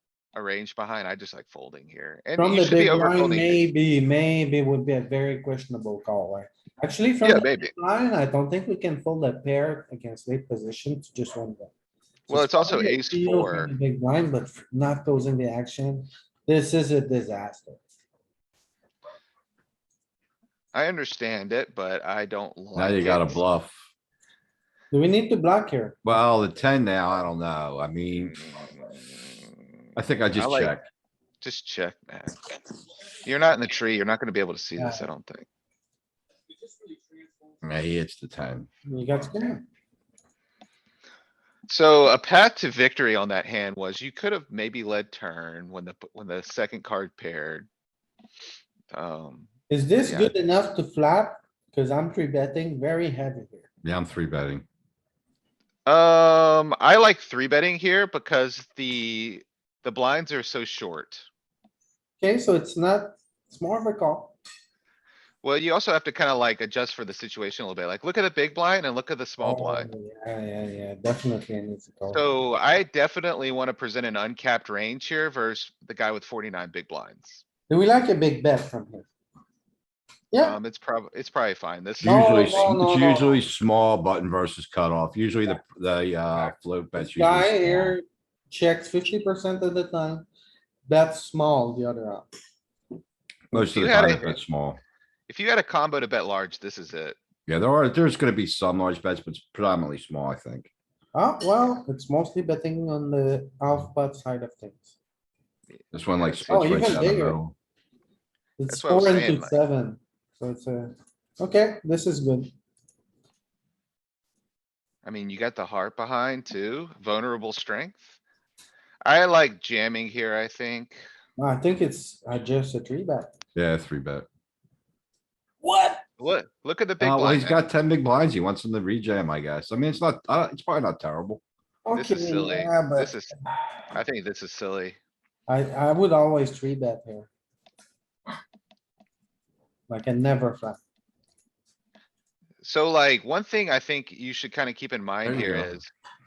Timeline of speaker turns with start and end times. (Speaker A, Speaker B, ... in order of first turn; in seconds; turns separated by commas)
Speaker A: 0.3-3.6, Speaker B: 2.4-11.7, Speaker A: 7.2-7.7, Speaker A: 12.3-13.7, Speaker B: 12.3-17.8, Speaker A: 20.7-23.4, Speaker C: 22.7-23.8, Speaker B: 24.9-26.0, Speaker C: 26.0-28.4, Speaker A: 28.1-29.5, Speaker C: 29.9-30.9, Speaker A: 30.3-30.7, Speaker A: 31.4-32.5, Speaker A: 33.2-35.5, Speaker B: 34.8-35.1, Speaker C: 37.6-38.7, Speaker B: 38.9-39.6, Speaker A: 41.7-47.7, Speaker A: 48.9-49.5, Speaker B: 49.7-53.7, Speaker A: 50.0-50.3, Speaker C: 53.8-54.6, Speaker A: 55.9-61.2, Speaker B: 62.2-64.4, Speaker A: 65.4-69.9, Speaker B: 69.4-72.2, Speaker A: 72.1-77.4, Speaker B: 77.7-79.1, Speaker A: 80.4-82.8, Speaker C: 82.0-88.0, Speaker B: 82.0-83.4, Speaker B: 87.0-90.3, Speaker B: 90.9-92.3, Speaker C: 93.5-94.8, Speaker A: 93.6-94.4, Speaker A: 95.3-97.2, Speaker C: 97.5-100.7, Speaker B: 101.1-104.9, Speaker A: 105.7-106.5, Speaker C: 105.9-107.5, Speaker B: 106.5-107.4, Speaker B: 108.6-112.5, Speaker A: 108.7-109.5, Speaker A: 115.0-118.2, Speaker A: 119.0-121.0, Speaker B: 121.4-123.3, Speaker C: 123.5-124.2, Speaker B: 125.6-126.0, Speaker A: 126.2-127.6, Speaker C: 127.0-131.4, Speaker B: 131.8-133.1, Speaker A: 131.9-133.3, Speaker A: 133.9-134.9, Speaker B: 135.5-137.3, Speaker B: 139.9-140.8, Speaker A: 142.6-145.9, Speaker C: 145.2-145.8